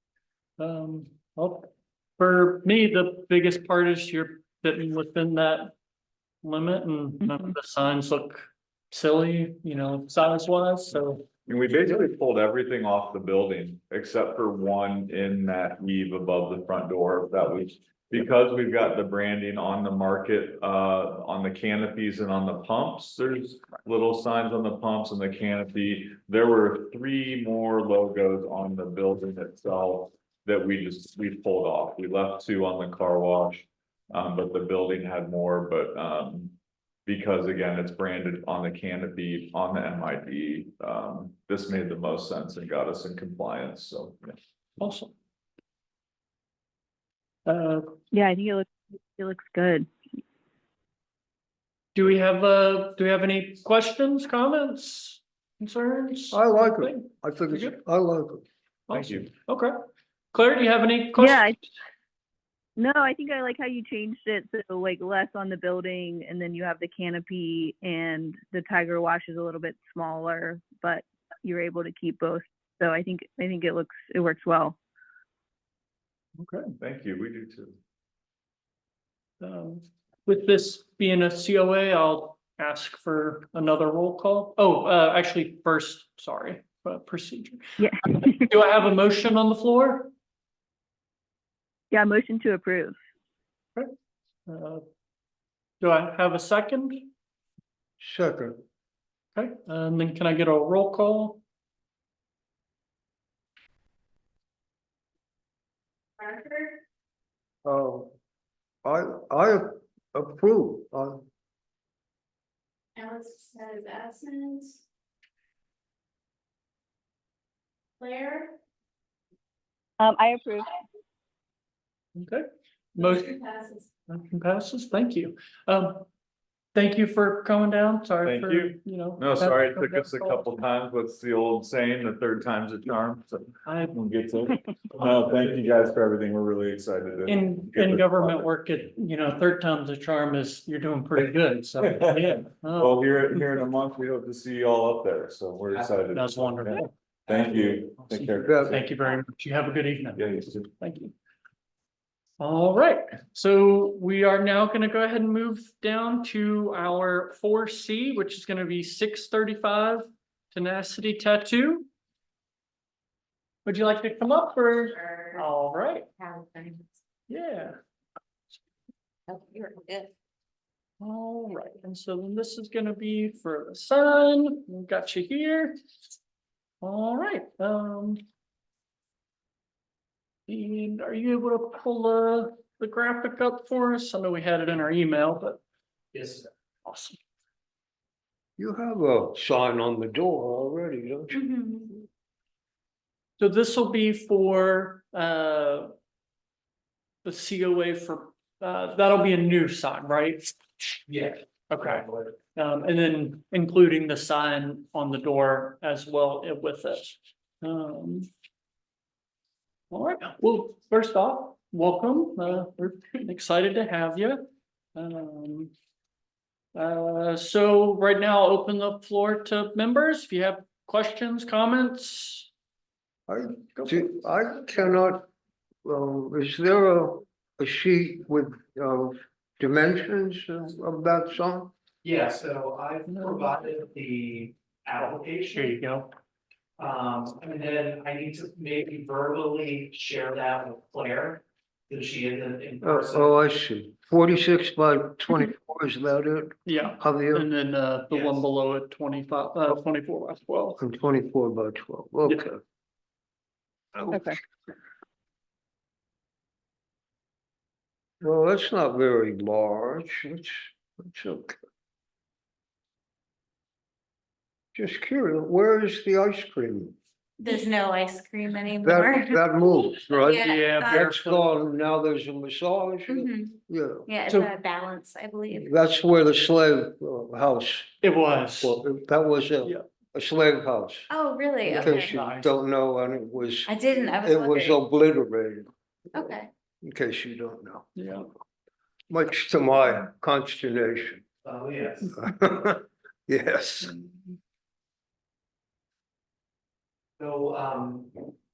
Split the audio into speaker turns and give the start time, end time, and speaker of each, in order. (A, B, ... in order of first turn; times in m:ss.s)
0:00.6-0:05.7 A
0:06.4-0:11.2 A
0:11.5-0:44.4 B
0:44.8-0:45.1 A
0:47.4-0:47.9 A
0:48.1-0:49.9 C
0:51.9-0:57.8 A
0:56.3-0:58.4 D
0:58.9-0:59.7 A
0:58.9-0:59.3 B
1:00.3-1:01.5 A
1:01.2-1:01.6 C
1:02.8-1:14.8 C
1:16.4-1:16.7 A
1:16.8-1:17.8 B
1:19.4-1:30.1 A
1:27.8-1:28.4 C
1:31.9-1:33.0 C
1:34.5-1:34.8 A
1:35.8-1:37.1 A
1:38.0-1:38.6 D
1:39.3-1:41.4 A
1:46.2-1:46.8 E
1:47.6-1:48.1 D
1:48.8-1:51.2 D
1:53.0-1:54.8 E
1:58.0-1:58.5 E
2:00.0-2:00.7 C
2:02.2-2:03.4 A
2:04.1-2:06.0 A
2:06.7-2:10.5 A
2:08.2-2:18.4 B
2:13.6-2:14.0 A
2:17.3-2:23.0 A
2:21.8-2:28.9 B
2:25.7-2:26.0 F
2:26.1-2:31.1 A
2:28.4-2:28.8 D
2:30.2-2:30.7 B
2:32.4-2:41.9 A
2:43.6-2:46.1 A
2:45.1-2:45.4 E
2:46.2-2:46.9 E
2:47.3-2:47.8 A
2:49.3-2:50.1 E
2:51.0-2:55.8 A
2:56.8-2:58.2 A
3:00.5-3:05.6 A
3:06.1-3:06.4 F
3:06.8-3:07.2 A
3:08.6-3:11.4 D
3:11.3-3:11.8 E
3:13.4-3:15.9 A
3:17.2-3:20.6 A
3:21.1-3:22.3 F
3:21.7-3:28.3 A
3:29.9-3:35.7 A
3:36.7-3:42.5 A
3:43.3-3:45.3 D
3:43.7-3:44.2 A
3:45.8-3:51.7 D
3:52.0-3:55.8 F
3:53.1-3:53.5 A
3:55.5-3:56.1 A
3:56.8-4:03.3 F
4:02.8-4:07.5 D
4:06.6-4:10.8 A
4:08.1-4:08.4 F
4:10.8-4:12.6 D
4:14.0-4:14.3 D
4:14.1-4:14.4 C
4:18.2-4:21.6 D
4:24.7-4:26.9 D
4:27.4-4:31.0 E
4:28.8-4:34.0 D
4:30.4-4:31.5 A
4:33.1-4:33.6 E
4:34.1-4:35.7 E
4:35.5-4:38.0 D
4:38.0-4:38.8 A
4:38.6-4:41.1 D
4:41.1-4:42.1 E
4:41.6-4:46.2 D
4:41.7-4:42.6 A
4:43.6-4:44.8 E
4:46.1-4:46.5 E
4:46.8-4:47.9 D
4:47.9-4:48.3 A
4:49.1-4:51.2 D
4:51.4-4:52.2 F
4:52.1-4:54.0 D
4:53.9-4:54.3 A
4:57.2-4:58.3 F